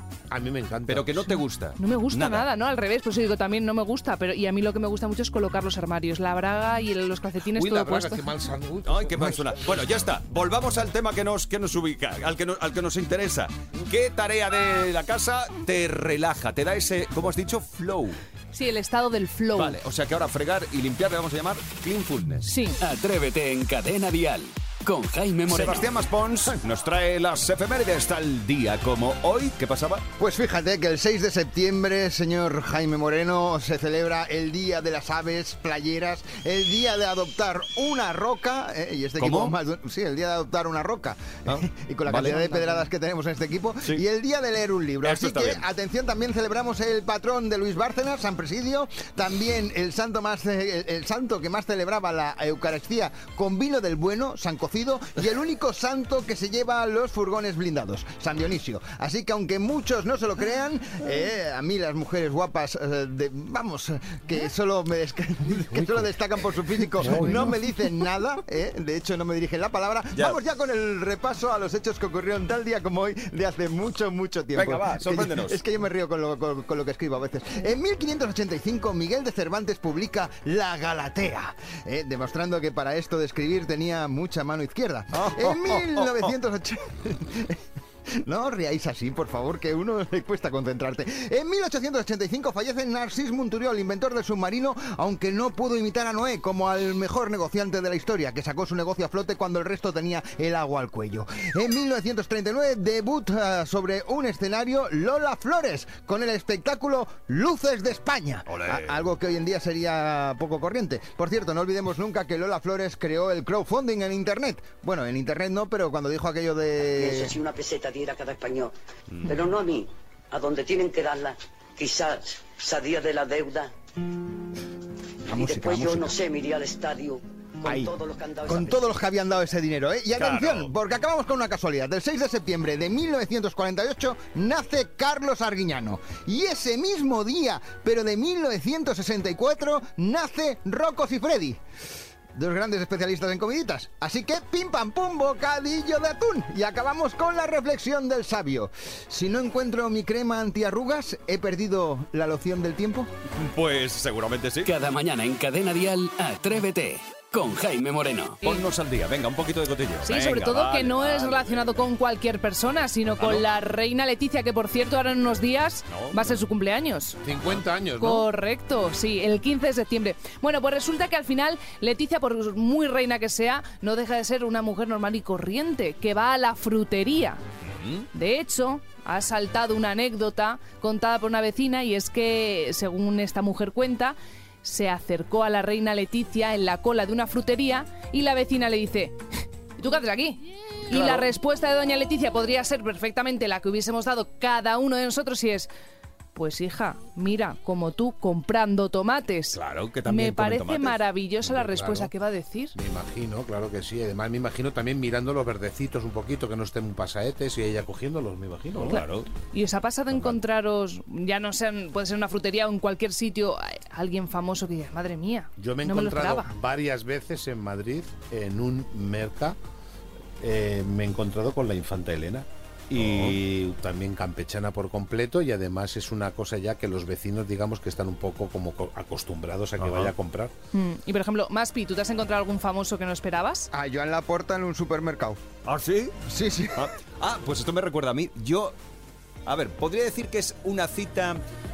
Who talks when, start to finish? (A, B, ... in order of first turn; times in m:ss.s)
0:00.3-0:01.4 A
0:00.9-0:02.5 B
0:01.8-0:08.2 C
0:07.5-0:09.9 A
0:08.8-0:18.2 B
0:18.5-0:19.8 C
0:19.5-0:22.5 B
0:22.4-0:22.8 C
0:22.8-0:25.9 D
0:25.5-0:30.1 B
0:30.2-1:27.6 E
0:39.2-0:39.5 B
0:41.5-0:42.5 B
0:42.3-0:42.8 C
0:45.0-0:45.6 B
1:05.7-1:06.1 A
1:06.9-1:07.6 A
1:14.5-1:15.6 B
1:25.1-1:26.3 B
1:28.1-1:57.4 E
1:48.5-1:49.0 B
1:57.0-1:58.7 F
1:59.1-1:59.4 B
1:59.2-2:03.7 F
2:05.3-2:06.1 E
2:05.3-2:09.0 F
2:07.6-2:07.9 E
2:08.5-2:21.6 E
2:10.2-2:10.7 B
2:22.3-2:33.1 E
2:33.3-2:34.7 B
2:34.6-2:38.4 D
2:38.4-2:41.7 B
2:40.0-2:47.2 C
2:43.2-2:43.4 B
2:45.9-2:46.2 B
2:47.2-2:48.3 A
2:48.0-2:57.4 C
2:57.6-2:58.0 B
2:58.1-3:09.2 C
3:09.8-3:15.7 C
3:10.9-3:11.3 B
3:16.3-3:22.8 C
3:19.5-3:21.0 B
3:21.4-3:22.1 A
3:22.7-3:29.0 A
3:28.8-3:29.3 B
3:28.8-3:36.5 C
3:35.6-3:39.6 A
3:40.4-3:50.5 A
3:42.9-3:43.4 B
3:49.8-3:50.1 B
3:50.7-3:53.7 C
3:53.7-3:55.4 E
3:55.6-3:58.7 B
3:56.3-3:56.9 E
3:59.4-4:01.4 B